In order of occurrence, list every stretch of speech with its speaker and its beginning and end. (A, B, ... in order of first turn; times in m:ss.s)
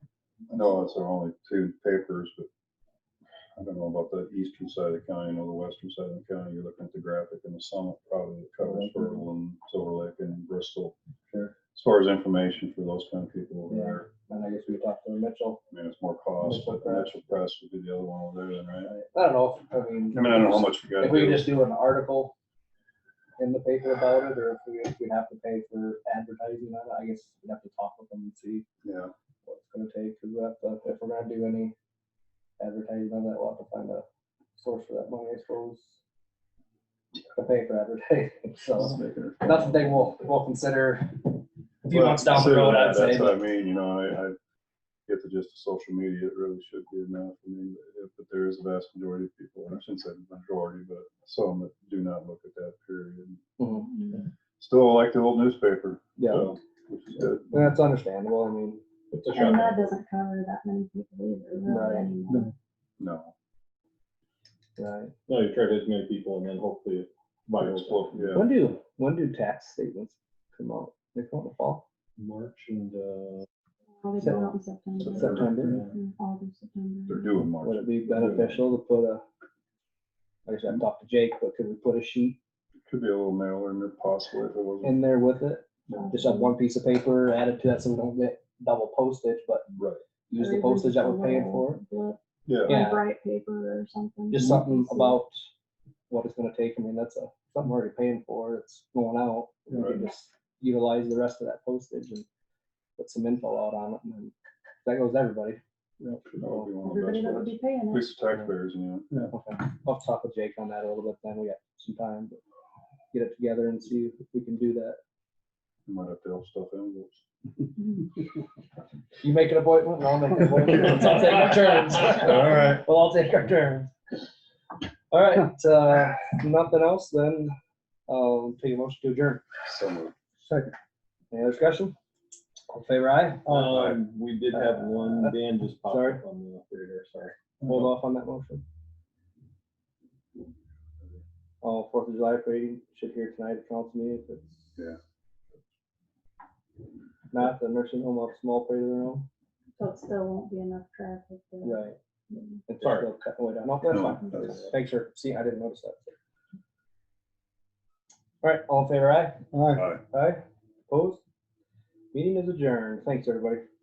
0:00.5-0:02.5 A
0:03.6-0:11.0 A
0:08.6-0:09.1 B
0:11.7-0:14.1 A
0:13.7-0:15.6 C
0:15.7-0:19.0 A
0:16.4-0:17.1 C
0:18.9-0:22.3 C
0:20.1-0:21.5 A
0:23.4-0:28.6 C
0:28.8-0:29.1 A
0:29.4-0:31.7 C
0:32.6-0:34.0 C
0:34.6-0:36.0 C
0:37.3-0:43.4 C
0:38.8-0:40.0 A
0:41.9-0:44.4 A
0:45.1-0:53.4 A
0:53.6-0:53.8 C
0:53.8-0:54.2 D
0:54.6-0:57.5 A
0:56.2-0:56.5 C
0:57.5-0:58.8 C
0:59.1-0:59.9 B
0:59.3-1:02.5 D
1:01.7-1:02.1 C
1:03.0-1:03.3 A
1:04.8-1:05.1 C
1:05.3-1:08.4 B
1:07.6-1:08.5 A
1:08.3-1:11.8 C
1:12.2-1:13.4 B
1:14.0-1:17.5 D
1:14.2-1:14.5 C
1:15.0-1:15.7 A
1:15.0-1:15.8 C
1:15.2-1:16.0 B
1:17.1-1:18.6 A
1:17.6-1:19.2 C
1:20.4-1:22.4 C
1:22.9-1:25.0 A
1:24.8-1:29.7 C
1:25.9-1:26.5 D
1:29.7-1:30.0 A
1:30.3-1:31.8 C
1:30.3-1:35.2 D
1:32.4-1:32.8 A
1:32.6-1:33.0 C
1:34.3-1:35.4 C
1:36.1-1:42.2 C
1:39.7-1:40.0 A
1:43.0-1:45.6 C
1:46.0-1:49.3 A
1:46.4-1:46.7 C
1:46.8-1:48.2 D
1:49.3-1:52.4 C
1:53.1-1:55.0 C
1:55.8-1:57.2 A
1:59.2-2:03.9 C
2:05.1-2:07.5 C
2:08.1-2:09.4 C
2:09.6-2:10.1 A
2:11.3-2:11.9 C
2:12.7-2:13.6 C
2:13.4-2:17.6 B
2:13.5-2:14.0 A
2:14.5-2:16.2 C
2:17.6-2:18.6 C
2:21.6-2:24.8 C
2:27.3-2:29.3 C
2:29.8-2:32.6 D
2:31.6-2:32.0 C
2:32.7-2:36.2 C
2:33.9-2:34.6 A
2:34.4-2:34.6 B
2:38.4-2:39.4 C
2:39.7-2:40.0 A
2:40.0-2:41.2 C
2:42.1-2:43.6 C